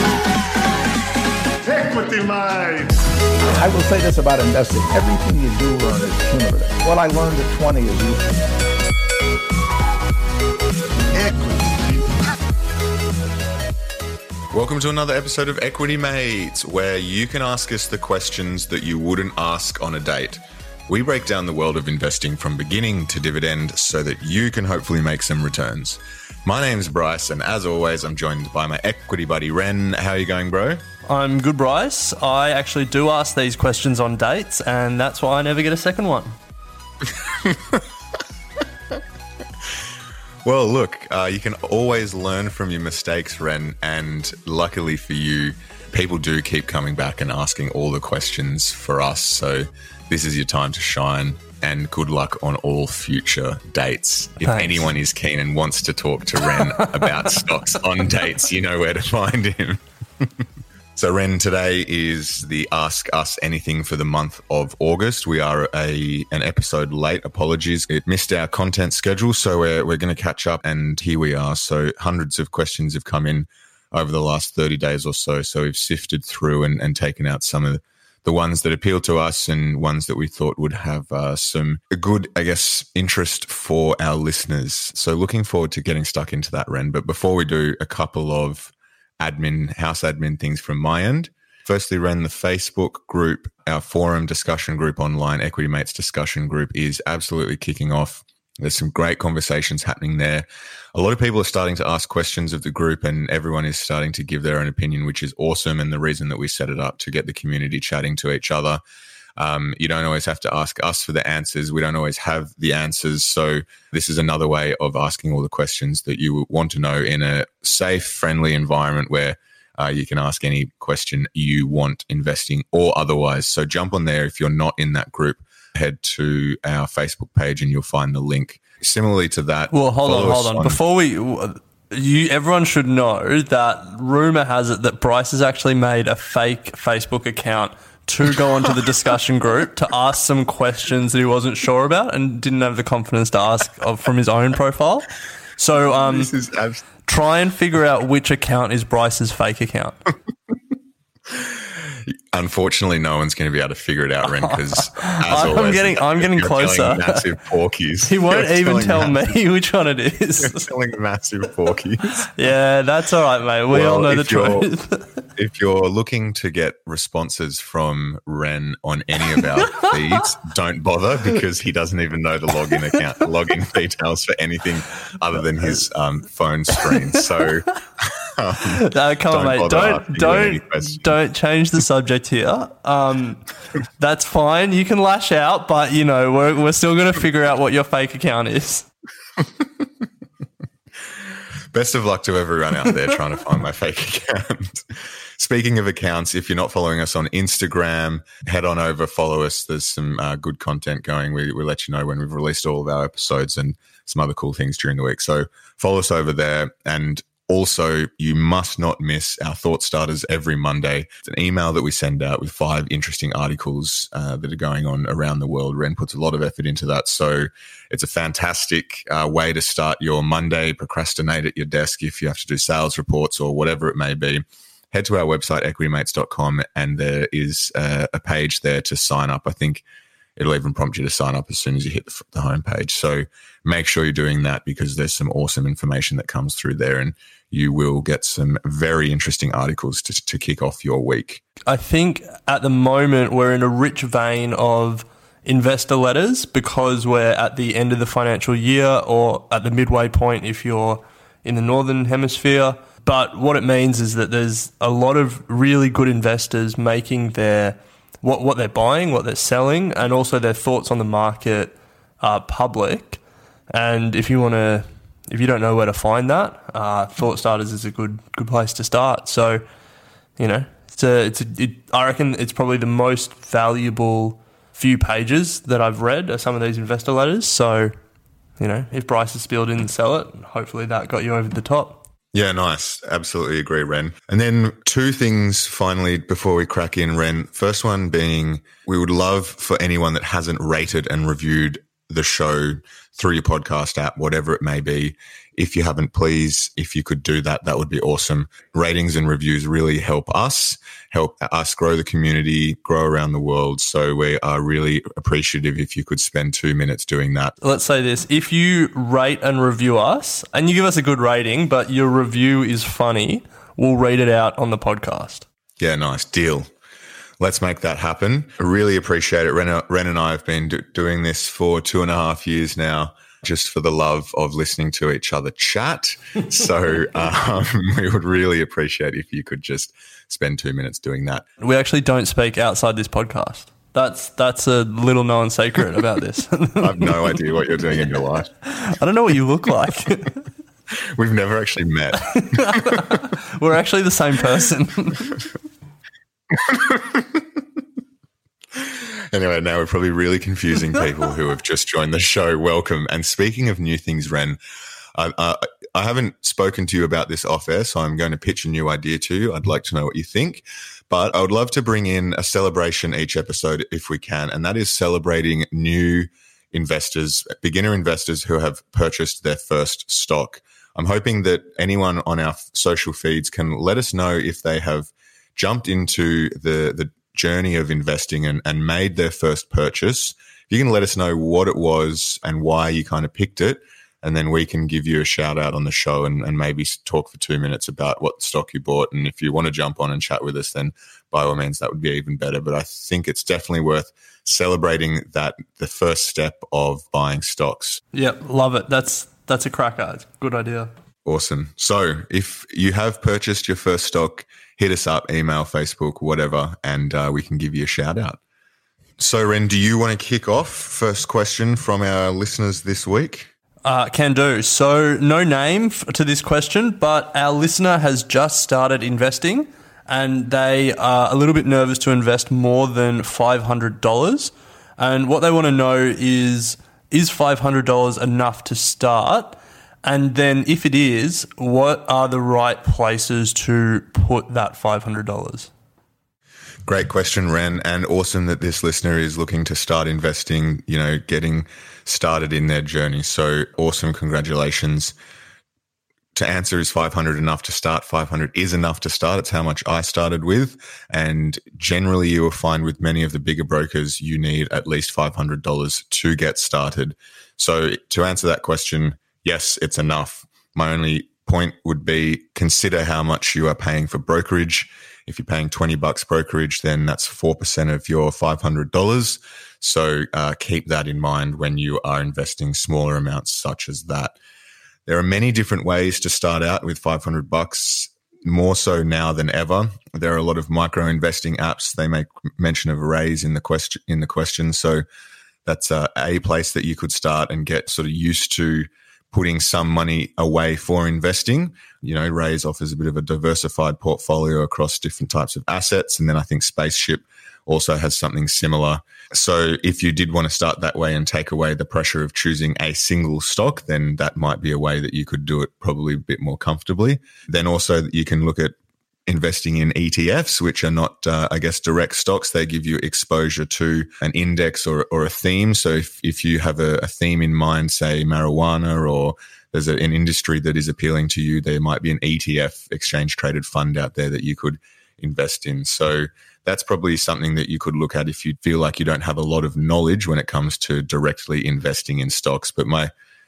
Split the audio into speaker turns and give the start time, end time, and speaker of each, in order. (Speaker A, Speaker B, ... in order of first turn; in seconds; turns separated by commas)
Speaker A: 1.6-3.0, Speaker B: 3.6-8.4, Speaker A: 11.1-12.2, Speaker C: 14.5-30.8, Speaker D: 31.1-36.4, Speaker C: 37.1-37.8, Speaker C: 40.4-60.3, Speaker D: 54.4-54.9, Speaker D: 56.4-57.5, Speaker C: 60.9-108.8, Speaker C: 109.4-130.8, Speaker D: 129.7-146.3, Speaker C: 145.9-146.8, Speaker D: 147.1-150.0, Speaker C: 151.3-159.2, Speaker D: 154.3-157.2, Speaker D: 158.1-160.7, Speaker C: 160.4-162.3, Speaker D: 162.3-165.1, Speaker C: 163.7-164.7, Speaker C: 165.3-181.1, Speaker D: 178.6-183.4, Speaker D: 184.0-188.9, Speaker C: 189.4-189.8, Speaker C: 191.7-229.8, Speaker C: 230.4-241.4, Speaker D: 241.7-263.2, Speaker D: 263.7-269.6, Speaker D: 270.4-277.9, Speaker D: 278.6-282.0, Speaker C: 282.3-307.6, Speaker D: 307.6-315.4, Speaker C: 315.8-316.7, Speaker C: 317.4-331.4, Speaker D: 331.6-337.4, Speaker C: 336.8-338.5, Speaker D: 338.6-340.4, Speaker C: 340.9-343.2, Speaker D: 342.4-345.4, Speaker C: 346.5-347.6, Speaker C: 348.7-354.6, Speaker C: 355.1-398.0, Speaker D: 398.1-400.9, Speaker C: 401.2-408.4, Speaker C: 409.2-413.5, Speaker D: 413.8-435.7, Speaker C: 436.9-445.1, Speaker C: 446.3-474.4, Speaker C: 475.1-485.0, Speaker C: 485.6-508.8, Speaker C: 509.3-533.1